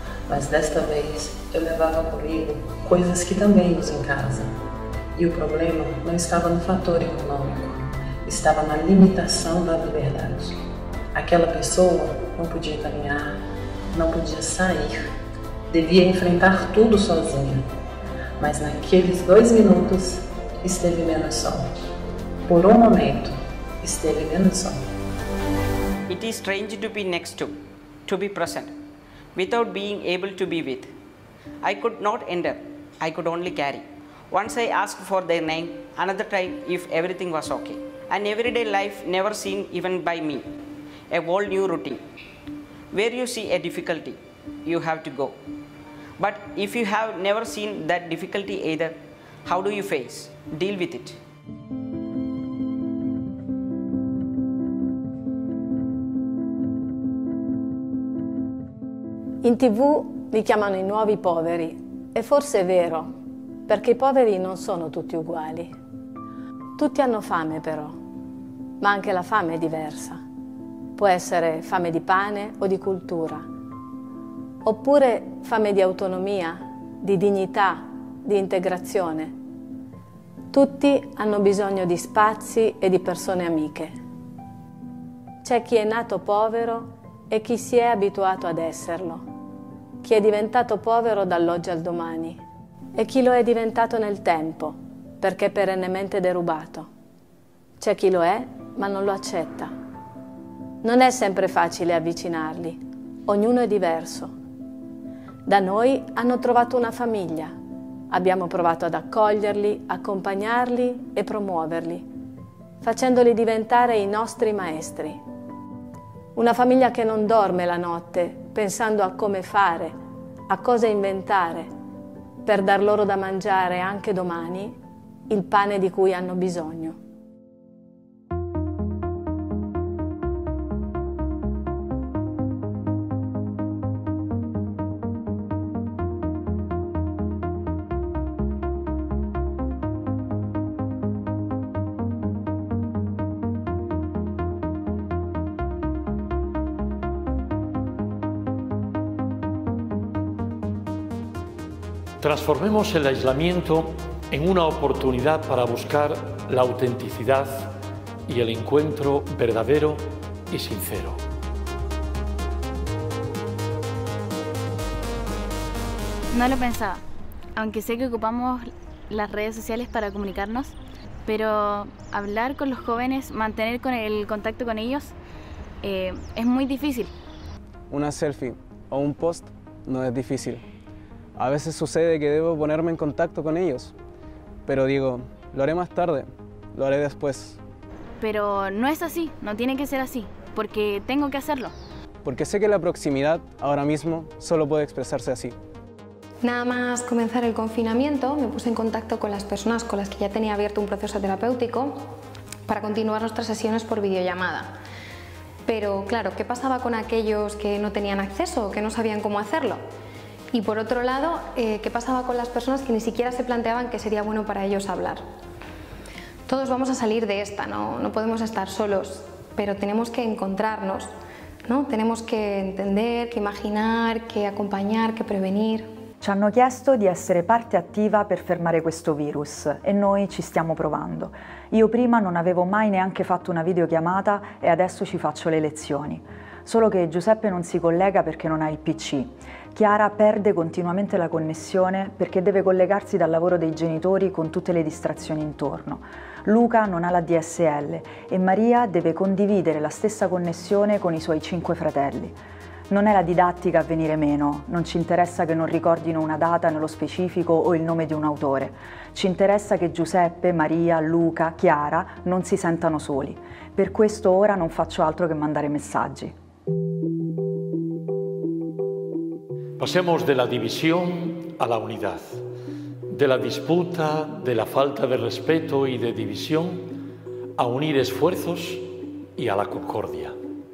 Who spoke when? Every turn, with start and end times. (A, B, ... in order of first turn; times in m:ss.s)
0:00.3-0:04.5 A
0:05.1-0:10.6 A
0:11.1-0:13.4 A
0:13.9-0:15.1 A
0:15.7-0:17.6 A
0:18.4-0:21.7 A
0:22.5-0:24.9 A
0:26.1-0:28.7 B
0:29.3-0:30.9 B
0:31.6-0:40.5 B
0:41.1-0:42.0 B
0:42.9-0:45.4 B
0:46.2-0:51.2 B
0:59.4-1:03.1 C
1:03.7-1:05.7 C
1:06.8-1:08.0 C
1:08.8-1:10.2 C
1:11.0-1:13.5 C
1:14.6-1:19.3 C
1:20.5-1:23.9 C
1:25.4-1:29.2 C
1:30.0-1:32.4 C
1:33.0-1:36.9 C
1:37.8-1:39.7 C
1:40.8-1:44.3 C
1:45.4-1:47.6 C
1:48.1-1:52.1 C
1:52.8-1:55.2 C
1:56.4-2:00.0 C
2:00.5-2:01.7 C
2:02.4-2:04.8 C
2:05.3-2:07.0 C
2:32.2-2:37.7 D
2:38.3-2:41.2 D
2:46.3-2:47.0 E
2:47.6-2:50.7 E
2:51.2-2:55.1 E
2:55.8-2:57.1 E
2:57.9-3:00.6 F
3:01.4-3:03.9 F
3:04.6-3:07.6 F
3:08.2-3:11.7 E
3:12.2-3:15.6 F
3:16.4-3:22.0 G
3:22.7-3:24.7 G
3:25.7-3:29.8 G
3:30.5-3:35.2 G
3:36.5-3:41.1 G
3:41.7-3:45.9 G
3:46.2-4:26.3 H
4:29.8-4:32.4 D
4:33.1-4:36.9 D
4:37.6-4:40.4 D